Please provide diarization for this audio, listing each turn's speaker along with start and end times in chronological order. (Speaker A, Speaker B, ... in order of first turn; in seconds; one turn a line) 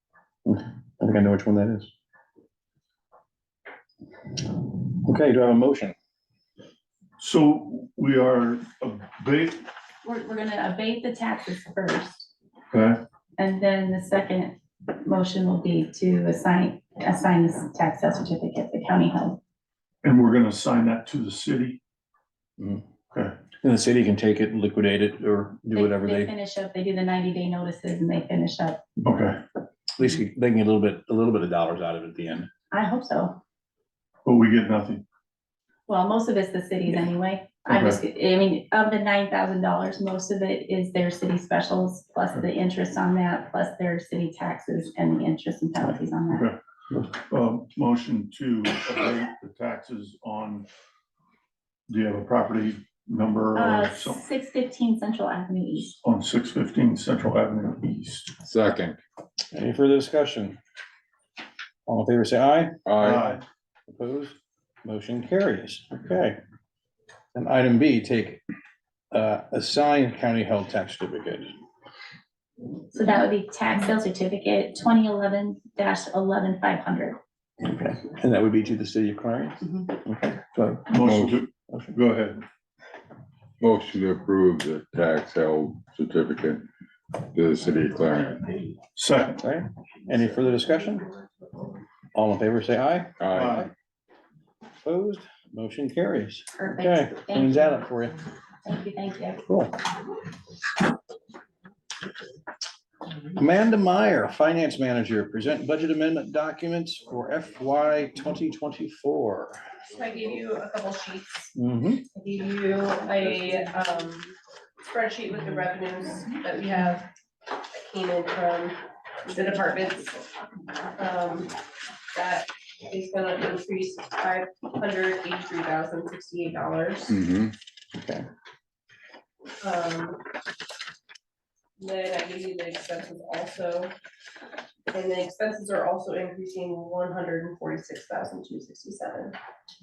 Speaker A: 0.4-1.9
Speaker A: 5.0-5.9
Speaker B: 7.2-9.6
Speaker C: 10.0-12.3
Speaker B: 12.7-13.0
Speaker C: 13.4-19.4
Speaker B: 20.0-21.8
Speaker A: 22.6-22.8
Speaker B: 23.1-23.4
Speaker A: 23.6-26.3
Speaker C: 25.7-28.8
Speaker B: 29.0-29.4
Speaker A: 30.0-32.5
Speaker C: 32.7-33.4
Speaker B: 34.2-35.0
Speaker C: 35.9-46.5
Speaker B: 37.7-38.0
Speaker B: 46.3-46.6
Speaker B: 47.3-50.7
Speaker B: 51.9-54.2
Speaker C: 53.5-56.0
Speaker B: 56.0-58.3
Speaker D: 58.4-59.0
Speaker A: 59.5-60.6
Speaker A: 61.9-66.4
Speaker D: 62.9-63.4
Speaker B: 63.0-63.4
Speaker A: 67.3-68.4
Speaker A: 69.1-71.5
Speaker C: 72.9-77.2
Speaker A: 77.6-81.2
Speaker B: 80.9-82.4
Speaker D: 81.0-81.3
Speaker A: 81.7-82.0
Speaker D: 83.6-86.7
Speaker D: 87.3-88.6
Speaker B: 89.0-89.4
Speaker A: 89.4-91.1
Speaker E: 90.3-91.7
Speaker A: 92.1-93.7
Speaker D: 93.2-93.6
Speaker B: 93.3-93.7
Speaker A: 94.8-98.2
Speaker C: 96.6-97.8
Speaker C: 98.6-99.4
Speaker A: 99.5-99.7
Speaker A: 103.3-109.6
Speaker E: 109.9-111.5
Speaker A: 111.5-112.0
Speaker E: 112.1-117.1
Speaker E: 117.7-120.2
Speaker E: 121.0-121.5
Speaker E: 122.1-127.2
Speaker D: 127.1-127.5
Speaker A: 127.9-128.2
Speaker E: 129.6-130.2
Speaker E: 131.8-133.9
Speaker E: 134.9-139.3